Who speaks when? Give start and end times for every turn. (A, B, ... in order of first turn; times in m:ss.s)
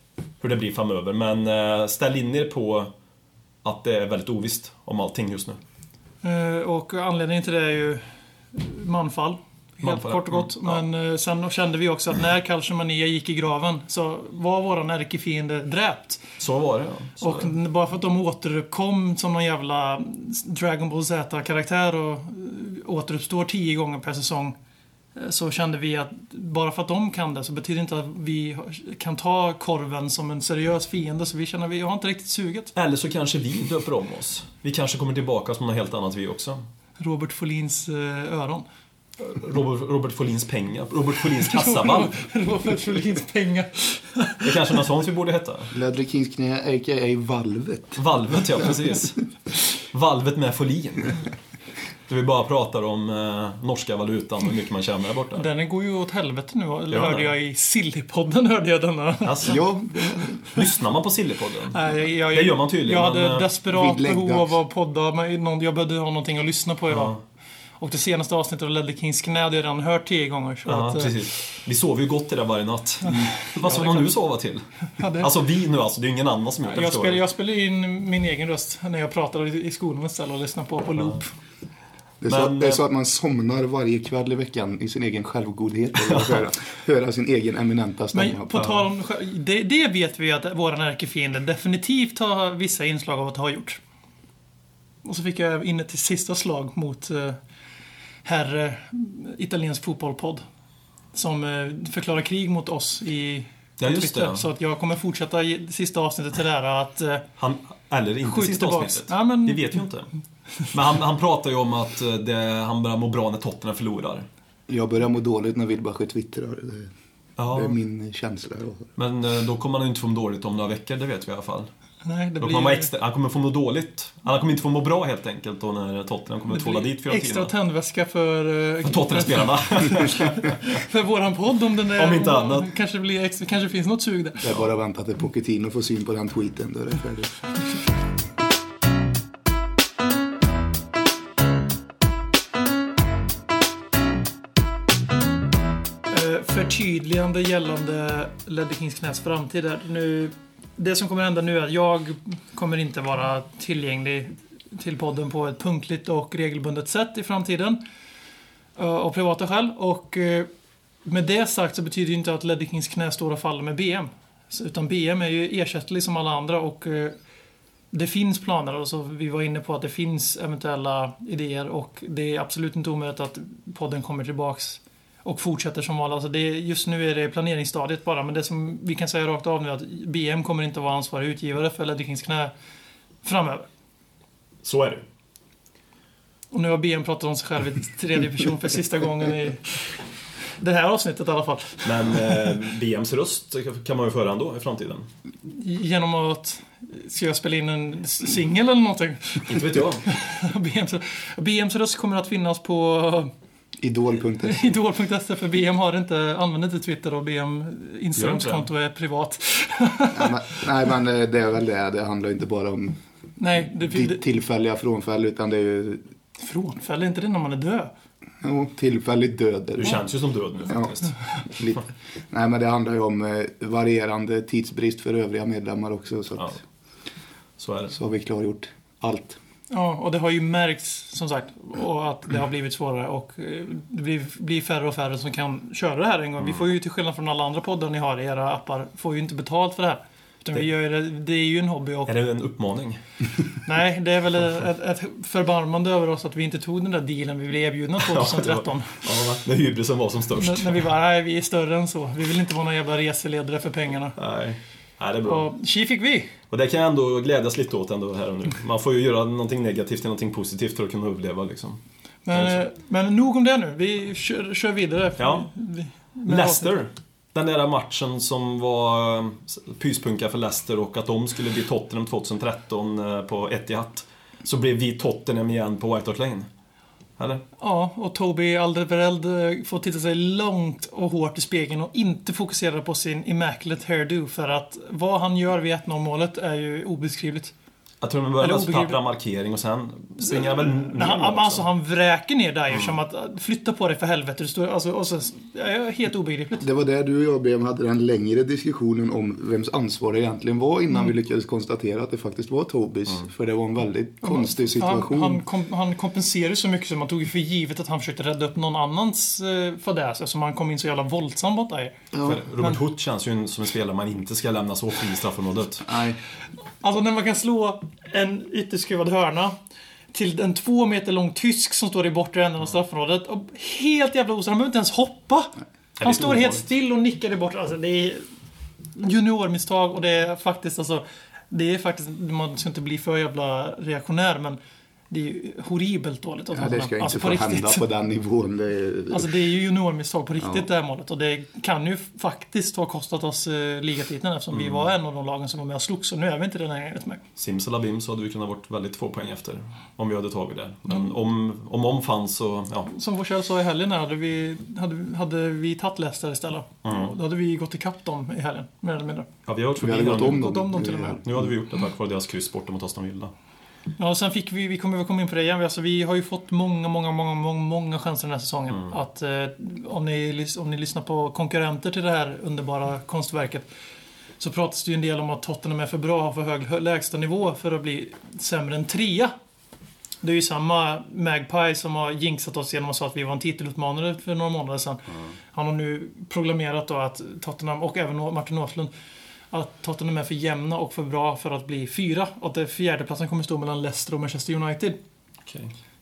0:00.4-0:02.9 A
0:03.6-0:05.6 A
0:06.2-0:16.2 B
0:09.8-0:10.8 A
0:16.4-0:17.5 A
0:17.2-0:24.6 B
0:25.2-0:32.7 B
0:32.7-0:36.6 A
0:37.0-0:38.6 B
0:39.2-0:42.1 A
0:41.5-0:44.7 B
0:44.4-0:45.7 A
0:45.7-0:48.0 C
0:48.0-0:49.2 A
0:49.8-0:51.2 A
0:52.1-0:55.5 A
0:55.4-1:00.3 B
0:56.9-0:57.3 A
0:59.2-0:59.6 A
0:59.5-1:00.4 C
1:00.5-1:03.5 A
1:01.7-1:07.1 B
1:03.7-1:04.6 C
1:06.9-1:07.2 A
1:07.8-1:11.3 B
1:10.6-1:17.2 A
1:13.1-1:14.1 B
1:15.0-1:15.3 B
1:16.6-1:21.3 B
1:22.2-1:28.6 C
1:22.3-1:22.8 A
1:26.0-1:26.4 A
1:28.1-1:33.8 B
1:28.5-1:28.8 A
1:35.0-1:37.4 B
1:38.2-1:40.4 B
1:41.1-1:47.3 B
1:43.8-1:44.4 A
1:47.4-1:50.1 A
1:48.2-1:49.8 B
1:50.7-1:54.3 A
1:54.7-1:56.9 C
1:57.4-1:57.8 A
1:57.5-1:58.9 C
1:59.0-2:01.7 A
2:02.0-2:02.9 B
2:02.4-2:07.5 A
2:06.5-2:14.5 B
2:08.8-2:10.6 A
2:12.0-2:12.7 A
2:14.4-2:17.4 C
2:26.1-2:37.8 B
2:38.8-2:40.5 B
2:41.0-2:47.1 B
2:47.9-3:02.5 B
3:03.2-3:03.7 B
3:04.6-3:05.0 A
3:06.5-3:10.0 B
3:10.6-3:12.5 B
3:11.8-3:15.1 A
3:15.5-3:23.3 B
3:19.5-3:20.1 A
3:23.8-3:24.7 C
3:24.4-3:30.6 B
3:28.2-3:28.6 A
3:30.1-3:33.0 C
3:33.4-3:34.2 B
3:33.6-3:36.0 C
3:36.4-3:37.9 B
3:38.4-3:40.0 C
3:39.8-3:41.1 A
3:40.7-3:40.9 C
3:41.5-3:46.5 C
3:47.6-3:47.9 A
3:47.9-3:49.4 C
3:49.7-4:02.1 B
4:02.1-4:03.0 A
4:03.6-4:09.0 B
4:08.0-4:10.8 A
4:10.4-4:14.2 B
4:14.2-4:15.5 A
4:15.2-4:16.3 B
4:16.5-4:21.8 A
4:22.2-4:26.8 B
4:22.3-4:22.6 A
4:25.2-4:25.5 A
4:26.2-4:36.5 A
4:37.2-4:37.4 A
4:37.6-4:47.5 B
4:48.0-4:51.7 A
4:48.4-4:49.0 B
4:50.2-4:56.7 B
4:56.6-5:05.4 C
5:04.2-5:12.0 B
5:12.1-5:12.4 C
5:12.2-5:15.9 A
5:15.8-5:16.2 C
5:16.8-5:19.5 B
5:20.1-5:28.3 B
5:26.0-5:26.6 A
5:29.0-5:34.6 B
5:35.1-5:37.8 B
5:36.5-5:39.3 C
5:39.1-5:47.2 B
5:40.4-5:40.7 C
5:44.5-5:44.9 A
5:47.4-5:52.9 A
5:52.9-5:59.3 B
5:56.8-5:57.1 A
5:59.5-6:00.6 A
5:59.8-6:01.5 C
6:00.0-6:01.2 B
6:01.2-6:03.3 A
6:04.0-6:13.7 B
6:14.4-6:19.3 B
6:20.2-6:28.9 B
6:29.5-6:35.0 B
6:35.4-6:35.7 A